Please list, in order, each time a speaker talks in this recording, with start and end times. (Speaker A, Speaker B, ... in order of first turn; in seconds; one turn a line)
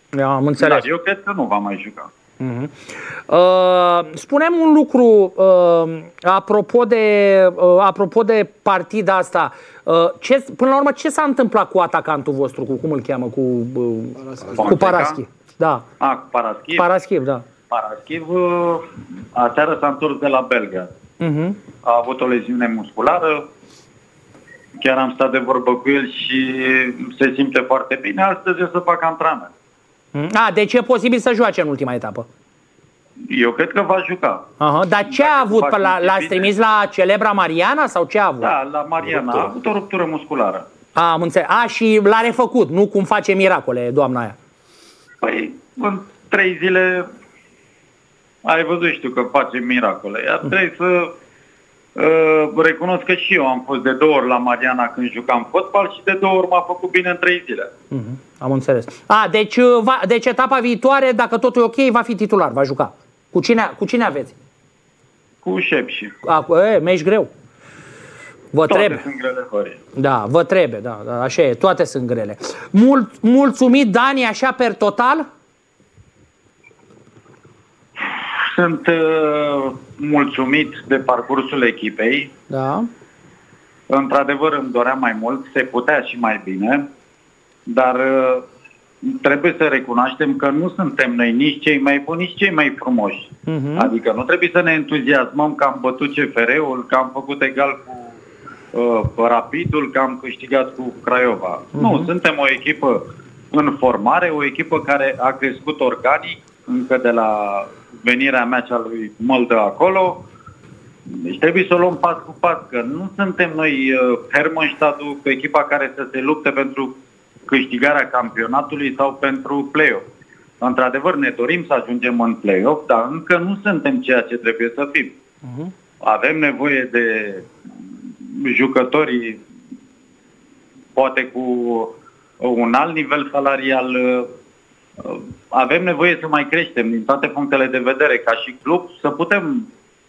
Speaker A: 0.1-0.8
Speaker B: 0.6-2.1
Speaker A: 2.4-2.7
Speaker A: 3.3-15.8
Speaker B: 14.5-15.2
Speaker B: 16.0-16.9
Speaker A: 16.8-17.4
Speaker B: 17.7-20.9
Speaker A: 21.2-21.6
Speaker B: 21.8-23.4
Speaker B: 24.8-29.5
Speaker A: 30.1-32.2
Speaker B: 33.3-34.4
Speaker A: 34.6-38.5
Speaker B: 35.0-36.5
Speaker B: 38.4-40.6
Speaker A: 39.1-39.5
Speaker A: 40.9-44.3
Speaker B: 45.2-47.0
Speaker B: 48.4-51.1
Speaker B: 51.9-57.7
Speaker A: 57.9-64.3
Speaker B: 65.4-66.1
Speaker A: 66.2-67.3
Speaker A: 68.5-69.0
Speaker B: 68.7-69.8
Speaker A: 70.0-75.2
Speaker B: 78.0-82.3
Speaker A: 82.5-82.9
Speaker B: 83.9-86.8
Speaker B: 87.7-88.4
Speaker B: 89.0-98.2
Speaker A: 93.5-93.9
Speaker B: 98.7-103.0
Speaker A: 101.8-102.1
Speaker B: 103.5-110.2
Speaker B: 111.0-116.9
Speaker B: 117.5-120.0
Speaker B: 120.6-125.1
Speaker A: 125.5-125.7
Speaker B: 126.0-129.4
Speaker B: 130.9-134.3
Speaker B: 135.0-139.7